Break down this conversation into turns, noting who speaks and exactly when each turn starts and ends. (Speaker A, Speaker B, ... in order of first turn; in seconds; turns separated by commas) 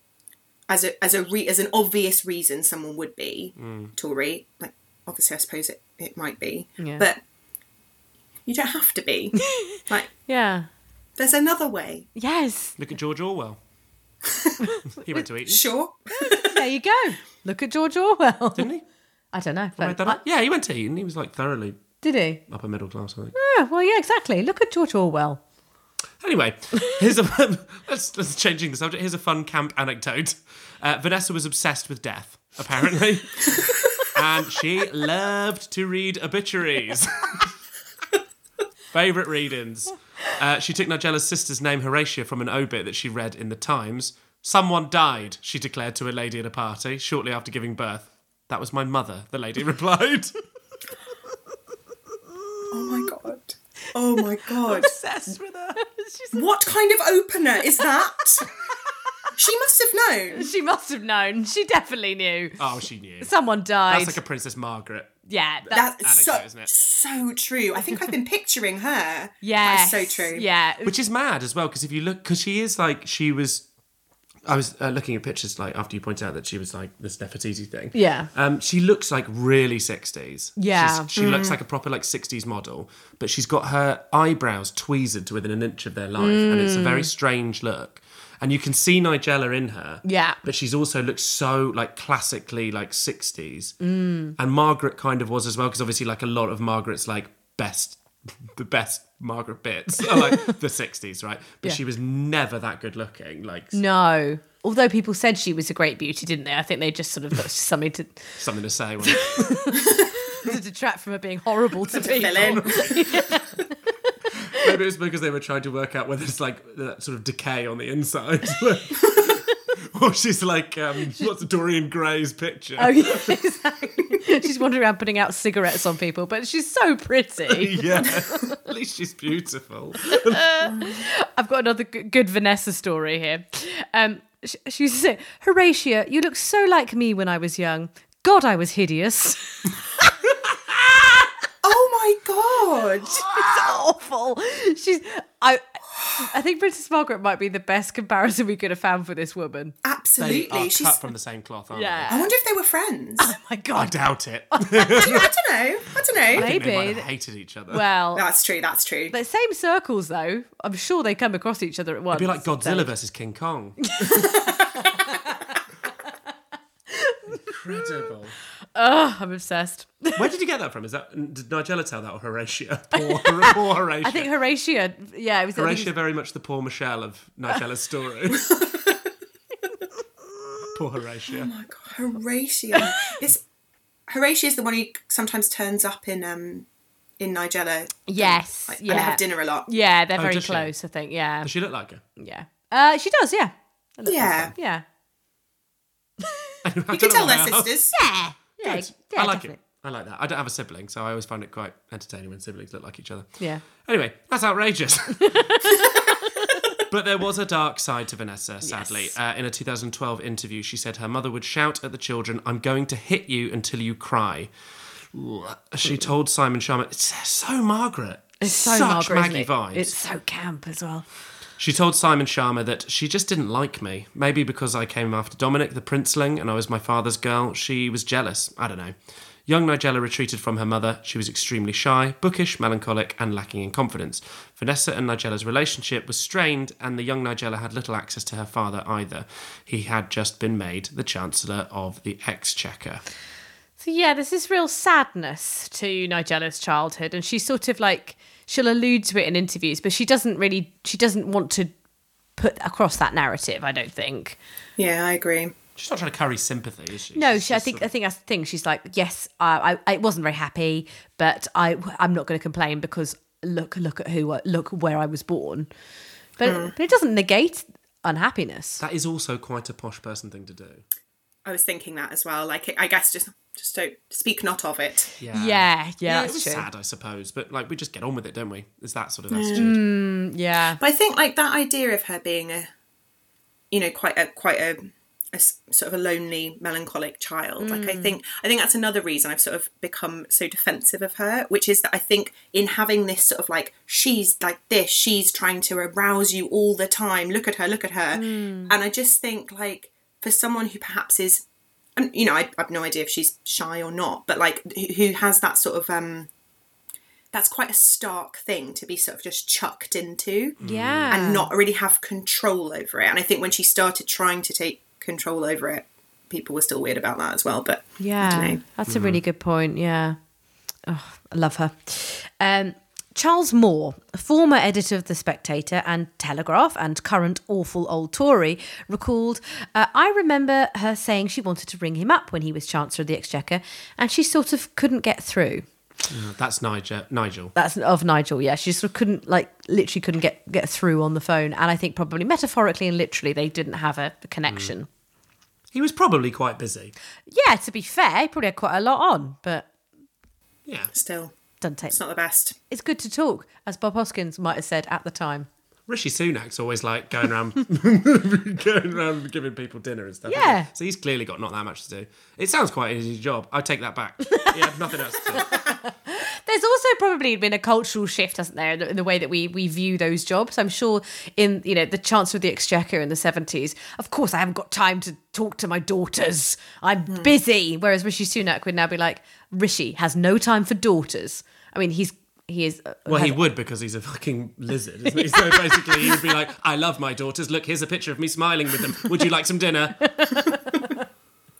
Speaker A: 0.7-7.2, Speaker B: 3.6-3.9, Speaker C: 6.8-7.1, Speaker A: 8.4-10.1, Speaker C: 9.5-10.7, Speaker A: 11.2-12.1, Speaker C: 12.2-12.8, Speaker B: 12.8-13.6, Speaker C: 14.6-15.2, Speaker B: 15.0-15.7, Speaker A: 15.4-16.6, Speaker C: 16.1-18.7, Speaker B: 18.6-18.8, Speaker C: 19.3-20.2, Speaker B: 19.8-21.9, Speaker C: 22.0-22.4, Speaker B: 22.5-23.3, Speaker C: 23.4-25.4, Speaker B: 26.2-37.5, Speaker B: 38.9-50.3, Speaker A: 52.7-54.9, Speaker B: 54.7-55.8, Speaker C: 55.8-56.4, Speaker A: 56.3-58.4, Speaker A: 59.4-60.5, Speaker C: 60.3-62.6, Speaker B: 62.6-63.3, Speaker C: 63.2-64.2, Speaker B: 63.9-65.2, Speaker C: 65.3-65.9, Speaker A: 65.7-70.5, Speaker B: 66.0-66.7, Speaker C: 69.4-70.9, Speaker B: 70.8-73.6, Speaker B: 74.5-93.8, Speaker C: 77.9-78.3, Speaker C: 80.6-81.1, Speaker A: 81.2-81.6, Speaker C: 86.2-87.1, Speaker C: 90.0-90.4, Speaker C: 93.8-94.3, Speaker B: 94.4-103.8, Speaker C: 103.7-108.4, Speaker B: 108.4-109.8, Speaker C: 109.1-113.7, Speaker A: 111.9-113.1, Speaker B: 112.3-113.4, Speaker B: 114.5-123.3, Speaker C: 122.8-128.5, Speaker B: 127.5-130.4, Speaker C: 130.1-139.8, Speaker A: 130.7-131.0, Speaker A: 141.6-143.2, Speaker C: 143.1-149.7, Speaker A: 149.8-151.0, Speaker B: 150.2-152.2, Speaker C: 151.7-152.3, Speaker A: 152.1-153.3, Speaker C: 153.2-154.0, Speaker B: 153.8-155.3, Speaker C: 154.5-155.0, Speaker A: 154.9-156.5, Speaker B: 156.2-157.9, Speaker C: 156.3-157.1, Speaker C: 157.7-158.2, Speaker A: 158.1-159.1, Speaker C: 159.1-162.9, Speaker B: 162.1-164.3, Speaker C: 163.8-165.6, Speaker C: 166.9-167.8, Speaker B: 167.4-168.4, Speaker C: 168.7-170.2, Speaker B: 170.2-174.3, Speaker C: 172.9-175.9, Speaker B: 175.6-178.7, Speaker B: 180.7-181.5, Speaker A: 181.4-183.4, Speaker A: 184.1-186.7, Speaker A: 187.2-189.7, Speaker C: 188.1-191.5, Speaker B: 190.2-190.7, Speaker B: 191.4-192.0, Speaker C: 192.2-194.8, Speaker A: 194.1-194.5, Speaker C: 196.3-196.5, Speaker B: 196.6-197.8, Speaker A: 196.9-197.9, Speaker C: 197.9-199.6, Speaker B: 198.6-205.6, Speaker C: 205.2-205.9, Speaker B: 206.9-214.5, Speaker C: 208.6-209.1, Speaker B: 215.1-219.9, Speaker C: 218.4-221.0, Speaker B: 221.6-228.9, Speaker B: 229.5-243.0, Speaker C: 243.8-251.7, Speaker C: 252.4-254.4, Speaker A: 254.8-255.5, Speaker B: 255.8-257.9, Speaker C: 257.1-265.7, Speaker C: 266.4-268.8, Speaker A: 266.4-266.7, Speaker B: 268.8-270.8, Speaker A: 271.4-275.1, Speaker B: 275.2-279.8, Speaker C: 275.3-276.7, Speaker A: 279.3-279.7, Speaker C: 279.5-280.8, Speaker A: 280.8-282.7, Speaker A: 283.7-301.4, Speaker C: 287.6-288.1, Speaker C: 298.1-298.7, Speaker A: 301.9-306.3, Speaker A: 307.3-310.6, Speaker B: 310.6-311.2, Speaker C: 310.6-311.5, Speaker A: 311.1-318.6, Speaker C: 318.0-320.2, Speaker B: 318.9-319.2, Speaker C: 320.9-335.6, Speaker B: 336.1-337.5, Speaker C: 337.5-344.9, Speaker B: 345.7-346.9, Speaker C: 347.3-349.7, Speaker B: 350.6-350.9, Speaker A: 350.9-351.3, Speaker C: 351.6-352.0, Speaker A: 351.9-352.6, Speaker C: 352.7-355.5, Speaker B: 355.9-365.6, Speaker C: 360.3-360.7, Speaker C: 364.3-364.6, Speaker C: 365.3-383.4, Speaker B: 383.1-390.1, Speaker C: 385.2-386.1, Speaker C: 390.0-391.0